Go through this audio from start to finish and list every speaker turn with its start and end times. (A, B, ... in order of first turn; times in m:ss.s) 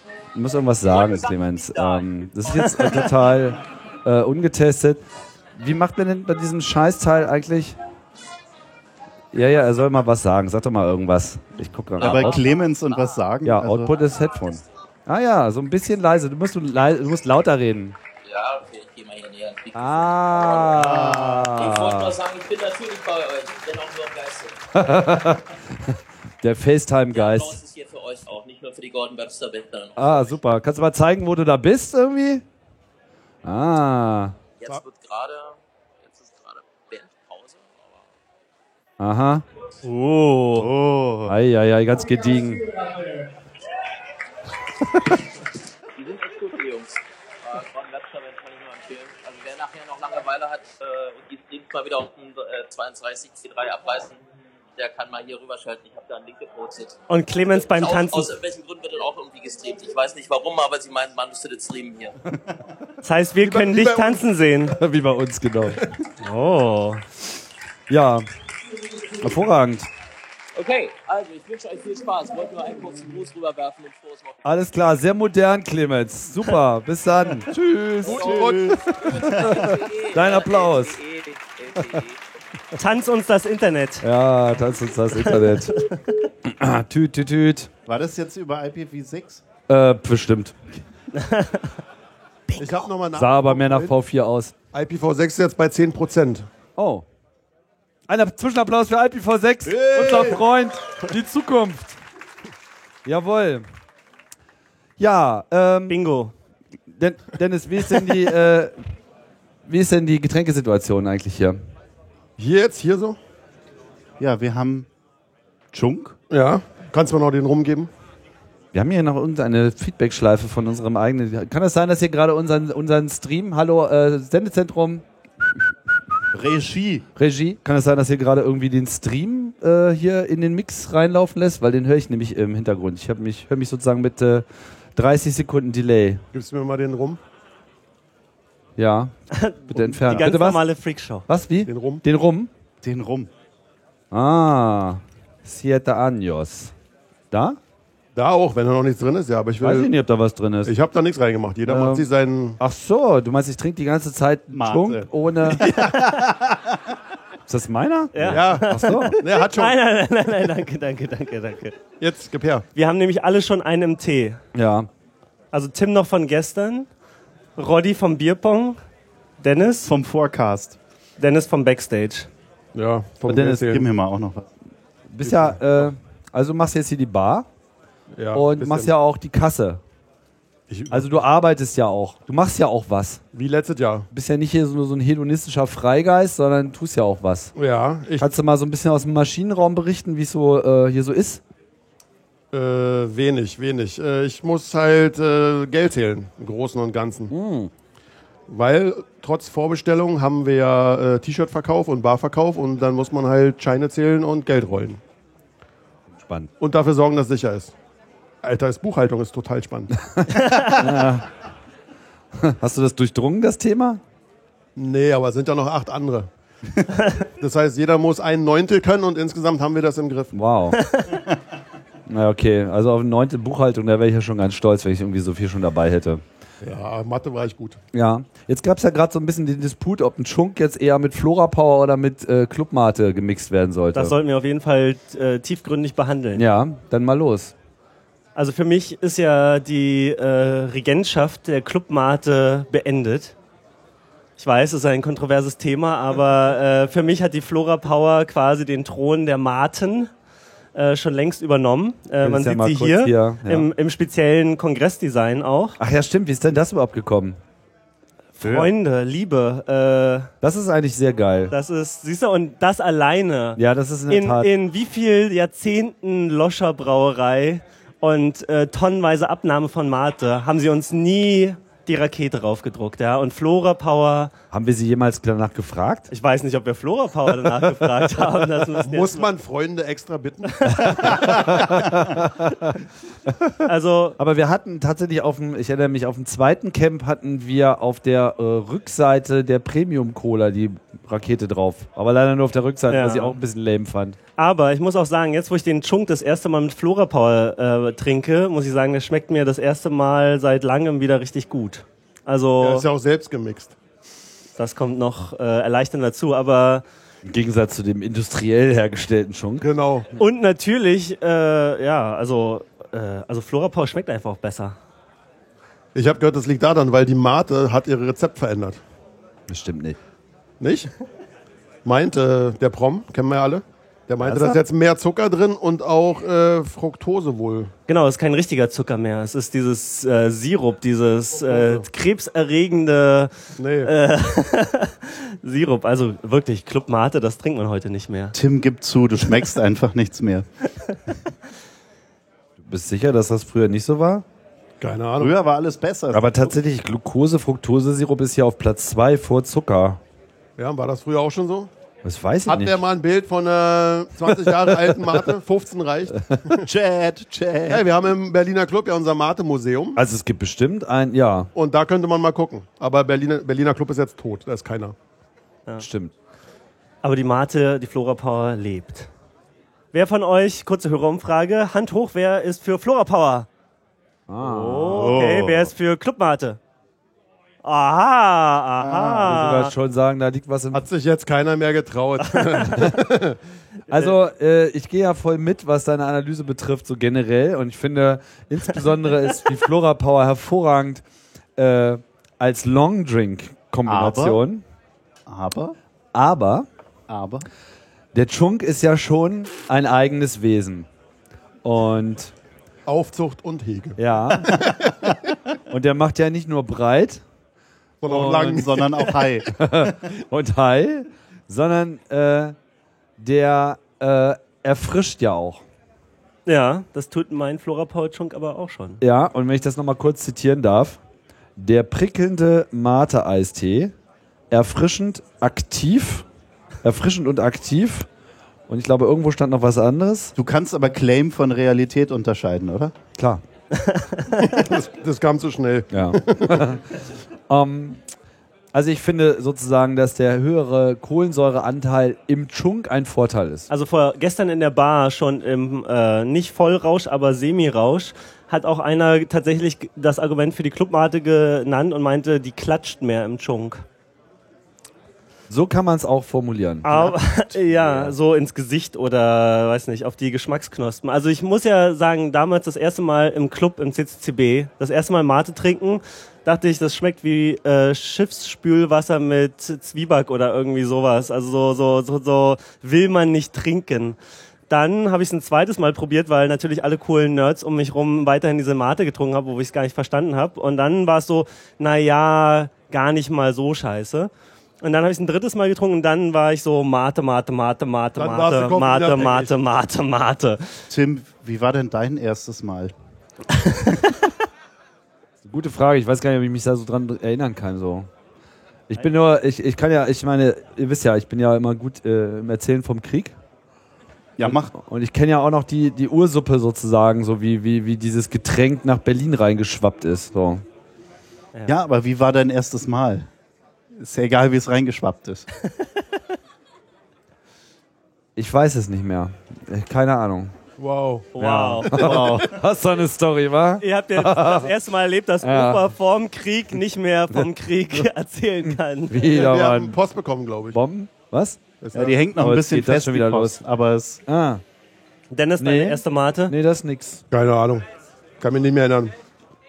0:00.3-0:05.0 A
0:00.9-0:02.8 B
0:05.6-0:07.8 A
0:09.3-0:12.4 A
0:12.0-0:13.2 B
0:12.0-0:13.9 C
0:13.4-0:18.0 A
0:18.2-0:24.9 B
0:19.7-0:22.1 A
0:20.7-0:21.8 C
0:24.7-0:27.6 A
0:27.1-0:30.4 B
0:30.0-0:32.4 A
0:33.4-0:34.3 A
0:34.6-0:38.0 B
0:39.0-0:39.4 A
0:39.8-0:40.7 D
0:40.5-0:41.4 C
0:41.3-0:42.7 A
0:46.0-0:54.2 B
0:54.7-1:02.2 B
0:57.1-0:58.3 D
1:03.0-1:04.8 D
1:03.4-1:04.2 E
1:04.7-1:05.9 A
1:06.2-1:07.0 D
1:07.9-1:08.2 A
1:09.2-1:09.9 A
1:10.5-1:14.4 B
1:14.4-1:18.4 A
1:18.0-1:19.0 E
1:18.0-1:19.7 C
1:18.1-1:22.2 B
1:19.1-1:21.0 A
1:21.8-1:22.0 A
1:22.7-1:24.0 D
1:24.0-1:25.7 A
1:25.1-1:26.0 D
1:26.4-1:27.7 A
1:27.8-1:29.4 C
1:29.7-1:30.5 A
1:31.1-1:31.7 D
1:32.6-1:33.9 E
1:33.1-1:34.5 A
1:34.7-1:36.5 E
1:36.8-1:37.0 A
1:38.1-1:42.0 A
1:39.7-1:40.4 C
1:43.0-1:43.6 A
1:45.0-1:46.0 A
1:45.9-1:46.3 D
1:47.0-1:48.7 A
1:49.6-1:51.6 A
1:52.4-1:53.2 E
1:54.2-1:54.9 C
1:55.7-1:56.1 C
1:56.3-1:57.9 E
1:58.7-2:05.6 A
2:06.3-2:07.0 C
2:07.2-2:14.4 A
2:15.0-2:16.2 A
2:16.3-2:17.2 E
2:18.8-2:19.1 A
2:19.3-2:21.2 D
2:19.7-2:20.6 A
2:21.3-2:22.5 A
2:21.6-2:22.0 E
2:22.8-2:23.3 C
2:24.1-2:26.7 A
2:27.3-2:27.6 A
2:28.1-2:29.9 E
2:29.6-2:30.7 A
2:30.6-2:32.6 E
2:31.7-2:32.0 A
2:32.6-2:35.7 A
2:34.5-2:37.0 C
2:35.7-2:36.2 D
2:37.5-2:39.2 A
2:38.1-2:41.8 D
2:38.3-2:39.7 E
2:42.0-2:42.6 E
2:42.7-2:44.4 D
2:44.5-2:44.9 A
2:45.5-2:46.9 D
2:47.6-2:48.8 D
2:49.4-2:49.9 D
2:49.8-2:50.8 C
2:51.2-2:52.3 D
2:52.7-2:53.8 E
2:53.3-2:54.5 C
2:55.1-2:57.4 A
2:55.2-2:55.9 E
2:58.2-2:58.9 E
2:58.3-2:59.8 A
3:00.7-3:01.1 E
3:00.9-3:03.2 A
3:03.3-3:04.1 E
3:04.1-3:07.5 A
3:07.6-3:08.3 E
3:08.2-3:11.4 A
3:12.5-3:17.3 E
3:17.3-3:17.7 A
3:18.5-3:25.0 E
3:26.2-3:26.5 A
3:26.6-3:27.7 E
3:28.4-3:29.9 E
3:30.1-3:31.3 A
3:30.3-3:30.8 D
3:32.4-3:34.0 A
3:34.8-3:36.3 E
3:37.4-3:40.3 E
3:40.3-3:40.8 A
3:40.7-3:41.2 D
3:42.1-3:46.2 A
3:46.6-3:47.8 E
3:47.9-3:54.1 A
3:53.9-3:56.4 D
3:56.3-3:57.5 A
3:58.3-4:03.3 D
4:04.4-4:10.1 D
4:10.7-4:15.8 D
4:12.2-4:13.7 A
4:15.8-4:17.4 A
4:18.4-4:20.3 D
4:18.4-4:18.7 A
4:20.4-4:21.5 A
4:21.5-4:34.3 D
4:23.6-4:24.5 A
4:34.5-4:36.1 A
4:36.1-4:39.3 D
4:38.8-4:41.8 E
4:40.5-4:41.4 D
4:40.8-4:43.6 A
4:43.6-4:44.2 D
4:44.2-4:54.2 A
4:52.9-4:53.4 D
4:54.4-5:02.8 D
5:02.6-5:03.7 E
5:04.6-5:06.8 D
5:07.2-5:09.6 A
5:09.6-5:10.1 E
5:10.2-5:14.8 D
5:15.9-5:18.8 E
5:19.5-5:20.0 A
5:20.6-5:20.9 E
5:21.8-5:27.7 E
5:24.2-5:24.6 A
5:27.9-5:38.3 D
5:31.4-5:31.8 E
5:33.6-5:33.9 E
5:38.3-5:40.4 C
5:42.6-5:44.2 A
5:44.8-5:45.3 E
5:45.2-5:46.3 C
5:46.1-5:50.0 A
5:50.6-5:51.7 E
5:52.0-5:52.8 A
5:52.5-5:56.6 E
5:54.3-5:55.1 A
5:56.6-5:57.8 C
5:57.7-6:00.0 E
5:59.9-6:01.5 A
6:01.5-6:04.9 E
6:05.8-6:06.1 A
6:07.0-6:09.1 D
6:09.9-6:13.5 D
6:14.3-6:15.5 A
6:14.4-6:16.6 D
6:14.8-6:15.6 C
6:17.6-6:19.7 D
6:18.8-6:19.4 C
6:19.3-6:20.8 A
6:20.7-6:23.4 E
6:23.9-6:31.0 A
6:31.6-6:34.6 A
6:33.8-6:34.4 C
6:35.3-6:35.7 C
6:36.1-6:36.6 A
6:37.1-6:37.4 C
6:38.1-6:40.9 A
6:41.6-6:42.3 A
6:42.9-6:44.0 E
6:44.0-6:44.6 A
6:44.4-6:45.1 C
6:45.7-6:47.2 A
6:48.0-6:48.8 E
6:48.0-6:48.7 A
6:48.1-6:50.0 C
6:49.5-6:52.5 A
6:53.2-6:55.6 A
6:56.4-6:59.0 D
6:59.0-7:01.0 A
7:01.6-7:03.9 A
7:04.5-7:06.2 A
7:06.8-7:08.1 A
7:08.7-7:10.3 A
7:10.3-7:12.9 C
7:13.2-7:13.4 A
7:13.7-7:14.4 D
7:14.4-7:16.8 E
7:15.9-7:16.8 A
7:17.5-7:18.0 A
7:18.7-7:23.7 A
7:23.7-7:33.8 D
7:35.5-7:37.1 A
7:36.8-7:54.2 D
7:36.9-7:38.1 C
7:54.7-8:04.3 D
8:04.8-8:10.8 D
8:08.2-8:09.5 E
8:10.9-8:12.9 C
8:13.5-8:14.1 D
8:15.4-8:18.1 A
8:18.9-8:23.3 A
8:24.4-8:24.7 C
8:24.4-8:30.6 A
8:31.7-8:33.3 C
8:34.0-8:35.4 C
8:38.4-8:40.5 A
8:40.8-8:41.3 E
8:41.3-8:42.2 D
8:41.4-8:44.7 A
8:41.9-8:42.6 C
8:43.8-8:49.3 D
8:45.4-8:45.8 A
8:48.7-8:50.0 A
8:49.3-8:50.8 E
8:50.7-8:51.6 A
8:51.8-8:52.2 E
8:51.9-8:54.2 C
8:52.4-8:53.6 A
8:54.3-8:54.6 A
8:55.3-8:56.5 D
8:55.6-8:57.2 A
8:57.3-8:57.8 E
8:58.4-8:59.1 E